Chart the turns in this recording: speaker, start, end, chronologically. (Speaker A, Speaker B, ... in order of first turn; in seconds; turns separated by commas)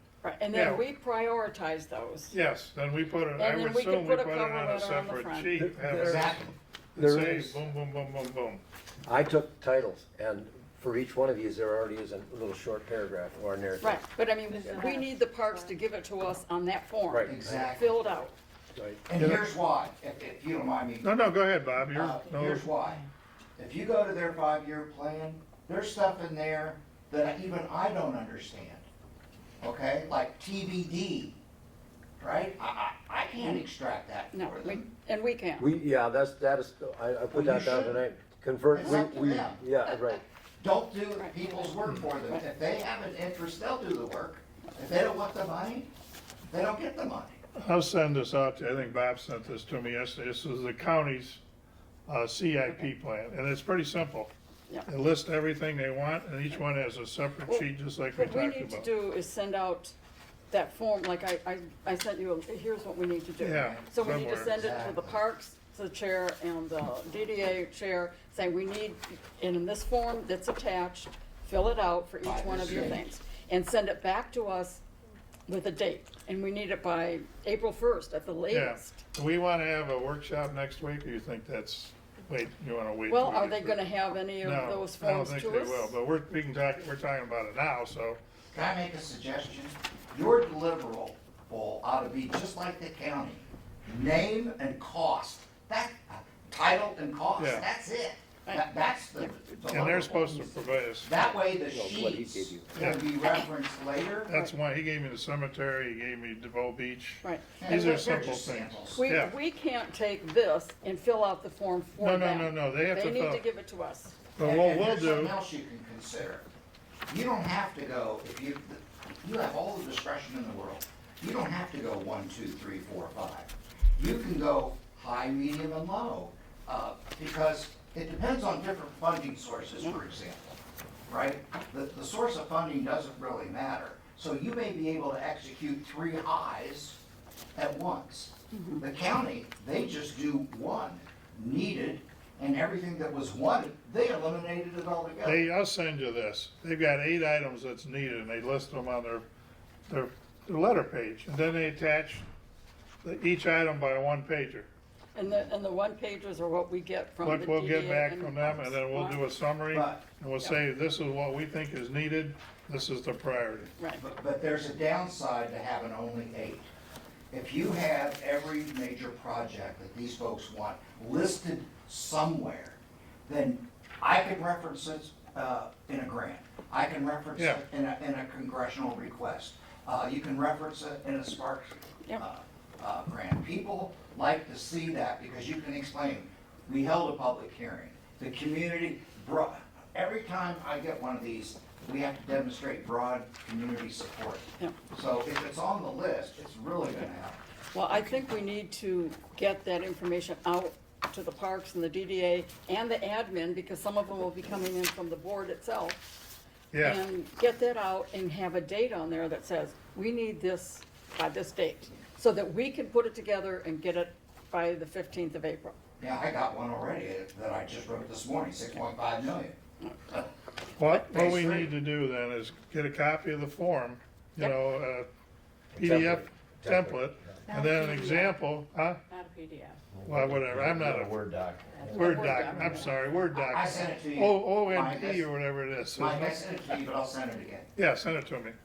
Speaker A: 0.2-2.4, Speaker B: 0.5-0.8, Speaker B: 2.3-8.6, Speaker A: 3.4-5.5, Speaker C: 5.6-6.4, Speaker D: 6.0-6.5, Speaker C: 7.0-7.6, Speaker C: 9.1-14.0, Speaker A: 13.8-18.3, Speaker E: 14.5-15.1, Speaker C: 17.1-17.7, Speaker D: 17.3-18.0, Speaker C: 18.8-19.1, Speaker D: 19.1-21.2, Speaker B: 19.2-19.5, Speaker B: 21.0-22.7, Speaker D: 21.9-23.0, Speaker D: 23.6-28.9, Speaker D: 29.6-31.4, Speaker D: 32.2-34.9, Speaker A: 34.3-35.7, Speaker C: 35.6-40.2, Speaker D: 37.3-38.0, Speaker D: 38.7-45.9, Speaker A: 41.2-41.7, Speaker B: 41.8-42.1, Speaker D: 46.5-47.4, Speaker B: 47.5-51.4, Speaker B: 52.1-54.3, Speaker B: 54.9-58.9, Speaker A: 57.5-60.0, Speaker A: 60.5-74.8, Speaker B: 63.4-64.5, Speaker D: 63.5-65.2, Speaker D: 72.2-73.0, Speaker A: 75.5-79.0, Speaker B: 78.5-83.8, Speaker A: 83.1-86.0, Speaker B: 84.4-88.2, Speaker D: 88.5-100.3, Speaker B: 97.4-97.7, Speaker A: 98.5-100.5, Speaker B: 99.7-101.2, Speaker D: 101.0-104.3, Speaker C: 101.7-102.9, Speaker B: 102.8-103.0, Speaker B: 104.3-109.3, Speaker A: 107.2-108.4, Speaker D: 107.6-109.1, Speaker A: 109.0-114.2, Speaker B: 112.0-113.4, Speaker B: 114.4-115.3, Speaker D: 114.4-116.5, Speaker D: 117.1-130.5, Speaker D: 131.1-137.0, Speaker D: 137.6-145.5, Speaker A: 138.5-138.8, Speaker B: 145.2-149.3, Speaker B: 149.9-152.3, Speaker B: 153.0-154.7, Speaker A: 155.2-159.2, Speaker B: 157.2-163.7, Speaker D: 159.7-160.0, Speaker D: 164.0-166.7, Speaker D: 167.3-197.4, Speaker B: 177.4-177.6, Speaker A: 197.7-206.0, Speaker B: 206.7-207.0, Speaker A: 206.8-215.8, Speaker D: 216.0-219.6, Speaker B: 220.8-225.1, Speaker D: 220.9-221.7, Speaker C: 225.7-227.4, Speaker B: 225.8-229.0, Speaker E: 227.5-228.4, Speaker E: 229.1-229.8, Speaker F: 230.0-232.7, Speaker B: 230.1-231.2, Speaker C: 230.1-231.3, Speaker E: 231.7-233.0, Speaker A: 231.9-232.9, Speaker B: 231.9-236.4, Speaker D: 233.4-235.2, Speaker D: 235.9-237.7, Speaker B: 237.8-238.6